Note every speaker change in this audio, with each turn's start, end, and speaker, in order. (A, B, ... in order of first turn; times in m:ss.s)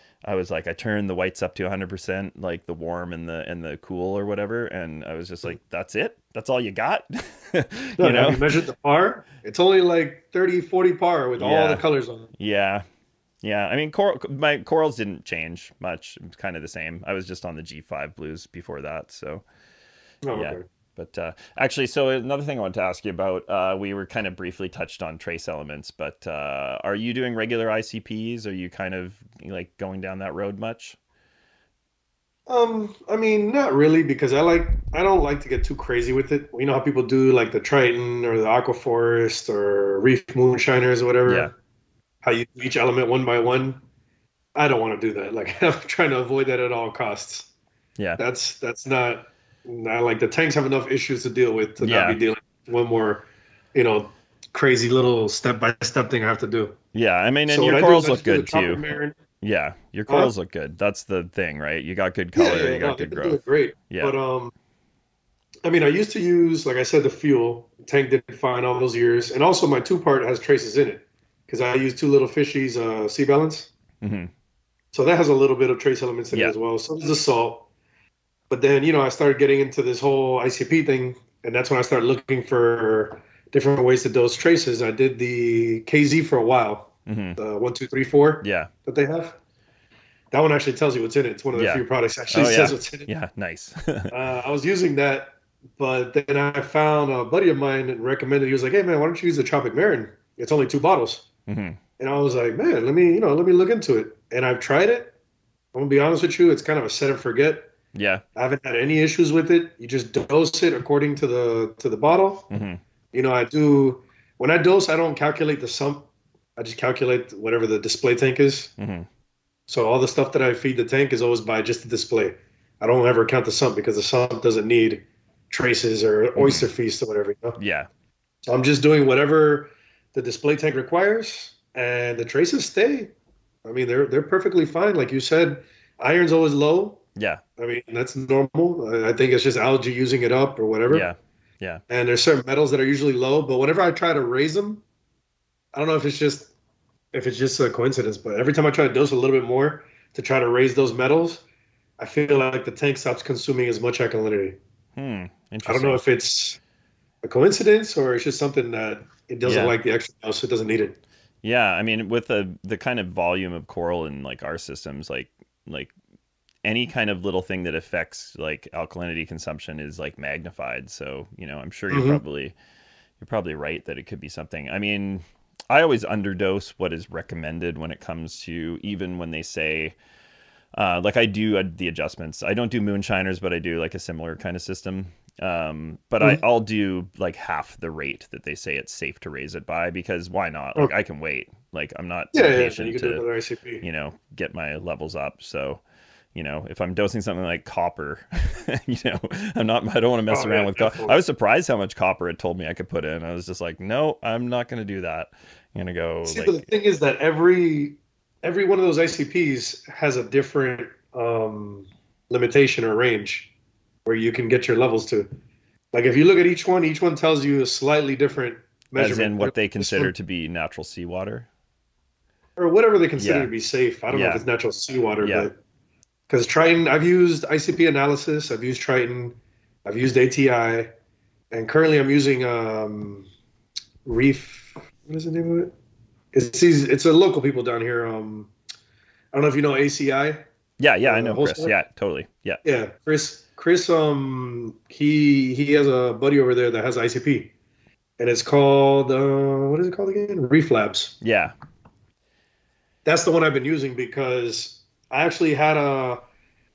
0:00.2-0:08.6 A
0:08.0-0:12.3 B
0:11.4-0:11.8 A
0:12.4-0:12.8 A
0:13.4-0:19.4 A
0:20.2-0:20.6 B
0:20.3-0:31.0 A
0:32.5-0:41.5 B
0:41.2-0:41.5 A
0:42.2-0:43.8 B
0:44.5-0:47.5 B
0:48.2-0:56.8 B
0:51.8-0:52.2 A
0:56.9-1:04.2 A
0:57.5-0:59.2 B
1:02.3-1:04.5 B
1:05.6-1:13.7 B
1:14.0-1:14.3 A
1:14.9-1:17.7 B
1:18.5-1:29.4 B
1:27.0-1:27.4 A
1:28.4-1:28.7 A
1:30.3-1:33.1 B
1:31.5-1:34.1 A
1:34.1-1:41.2 B
1:41.5-1:41.8 A
1:42.0-1:45.1 B
1:45.7-1:47.7 B
1:47.9-1:48.2 A
1:48.3-1:52.5 B
1:52.5-1:52.8 A
1:53.1-1:58.7 B
1:58.8-1:59.1 A
1:59.7-2:07.6 B
2:06.4-2:06.7 A
2:07.6-2:07.9 A
2:08.4-2:13.1 B
2:13.6-2:17.0 B
2:17.2-2:17.4 A
2:17.6-2:21.1 B
2:20.9-2:21.8 A
2:21.9-2:24.8 B
2:25.7-2:26.5 B
2:27.1-2:31.4 B
2:32.0-2:34.6 B
2:35.0-2:36.0 A
2:35.6-2:36.6 B
2:37.2-2:41.0 B
2:39.4-2:39.7 A
2:41.4-2:45.9 A
2:46.6-2:52.5 A
2:51.9-2:52.2 B
2:53.2-2:59.9 A
3:00.7-3:13.2 A
3:12.3-3:13.8 B
3:13.8-3:15.8 A
3:16.3-3:26.6 A
3:20.3-3:21.2 B
3:26.2-3:33.5 B
3:34.0-3:35.3 B
3:35.9-3:40.1 B
3:38.9-3:41.5 A
3:42.6-3:45.5 B
3:43.2-3:43.5 A
3:44.1-3:44.4 A
3:45.2-3:45.5 A
3:46.3-3:50.9 B
3:51.5-3:53.3 B
3:54.0-3:55.7 B
3:56.3-3:58.5 B
3:59.3-4:00.4 B
4:00.8-4:02.6 A
4:01.0-4:01.7 B
4:02.6-4:07.5 B
4:08.2-4:11.1 B
4:11.2-4:11.5 A
4:13.0-4:16.2 B